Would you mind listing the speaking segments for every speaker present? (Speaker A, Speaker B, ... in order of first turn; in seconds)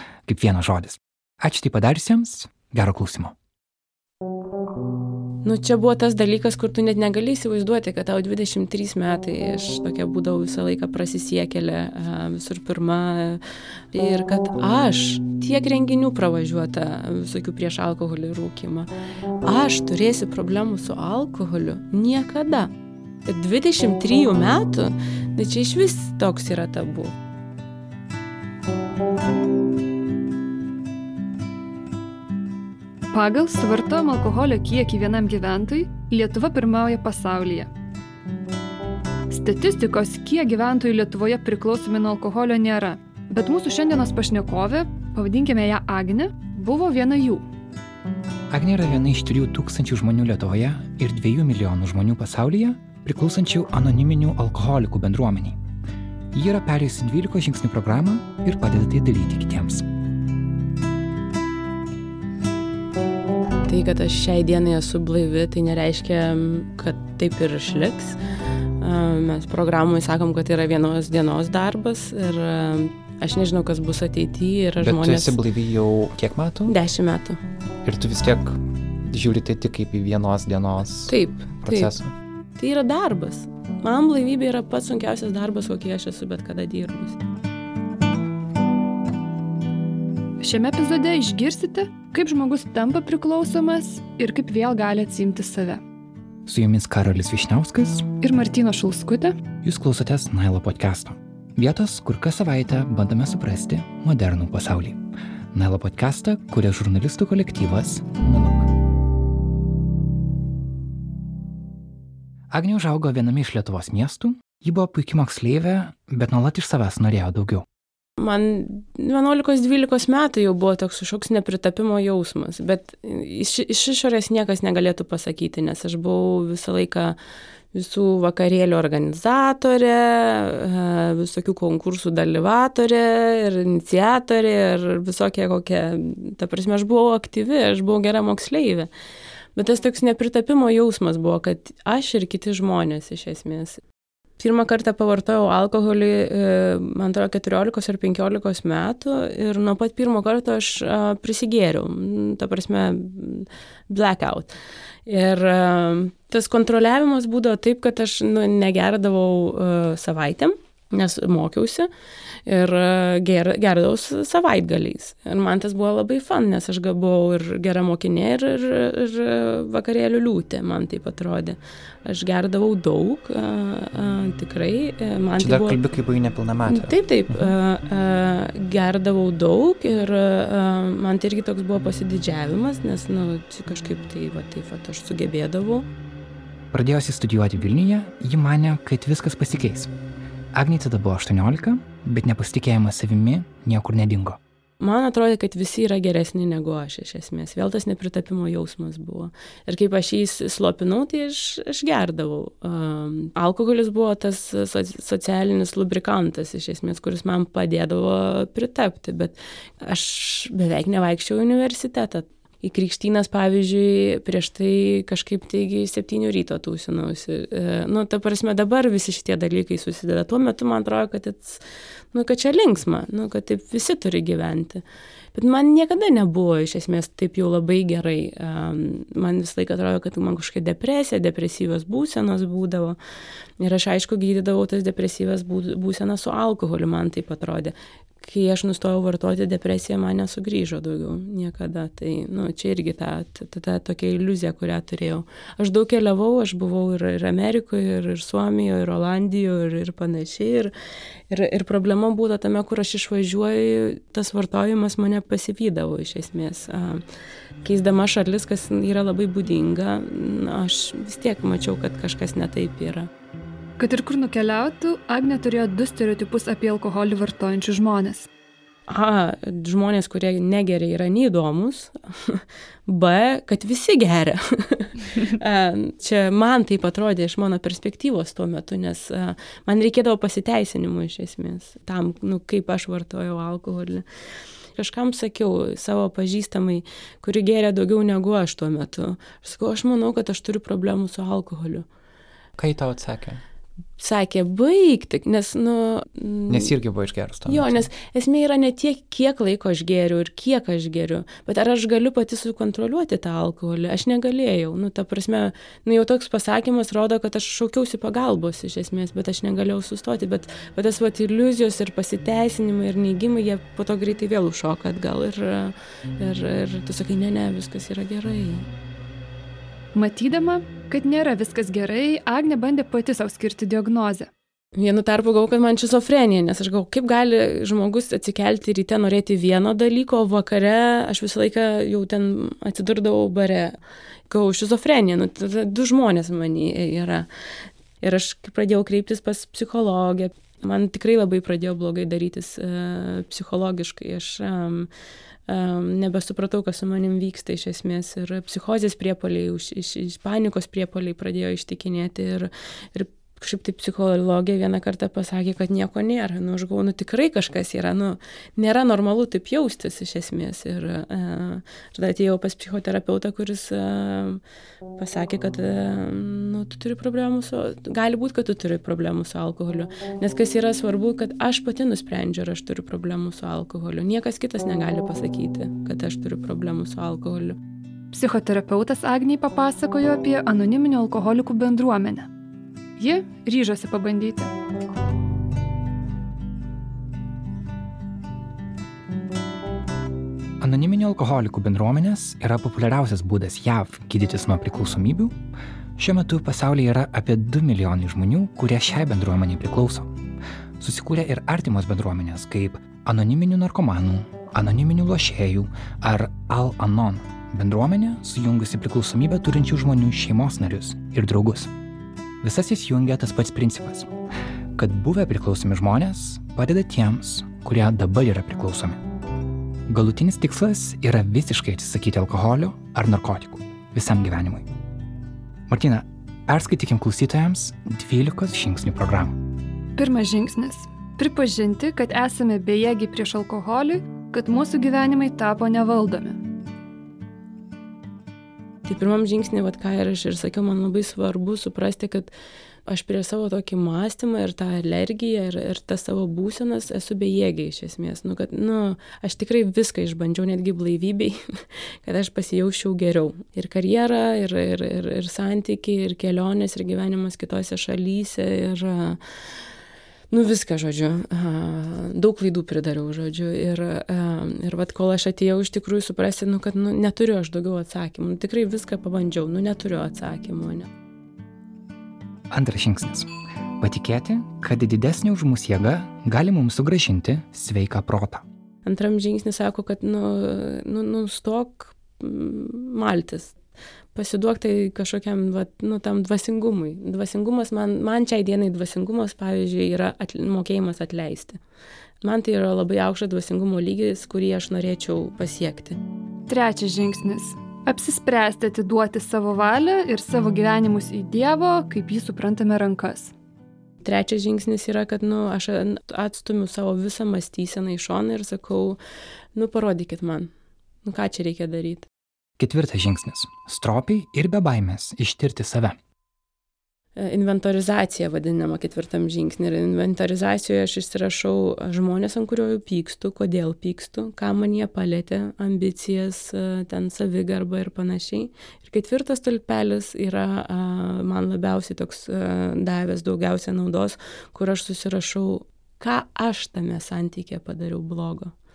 Speaker A: 0.3-3.4, 48.5-55.6, 56.3-59.9, 74.8-76.8, 77.8-81.1, 81.7-82.1, 96.5-98.1, 99.6-108.7, 112.5-117.7, 175.4-177.5, 186.7-189.9, 190.5-194.4, 292.6-293.4, 296.5-297.8, 390.6-395.3, 396.0-400.1, 400.8-411.7, 412.4-414.1, 414.8-419.0, 419.9-424.7, 425.7-429.4, 472.5-478.4, 512.6-516.0
Speaker B: 5.4-13.4, 13.9-18.9, 19.4-22.7, 23.2-27.1, 63.7-68.2, 68.8-75.4, 76.7-77.4, 81.1-81.9, 82.6-87.2, 118.2-127.2, 127.7-138.9, 139.6-143.8, 144.4-154.6, 155.1-161.9, 162.5-175.8, 176.7-185.9, 194.8-233.0, 233.6-250.7, 251.3-257.0, 257.6-263.1, 268.9-284.1, 284.8-291.9, 294.0-296.7, 297.5-318.7, 324.8-333.8, 334.3-337.3, 338.0-344.9, 345.5-364.4, 365.0-377.6, 438.9-442.3, 442.9-459.2, 460.3-470.9, 478.8-483.6, 484.1-491.6, 492.2-496.0, 504.0-509.0, 509.6-510.5, 511.0-512.1, 517.2-538.5
Speaker C: 33.1-37.7, 39.3-47.5, 90.4-95.8, 98.2-99.3, 263.8-268.3, 319.9-324.3, 378.1-382.3, 383.0-384.5, 430.0-436.4, 496.5-503.3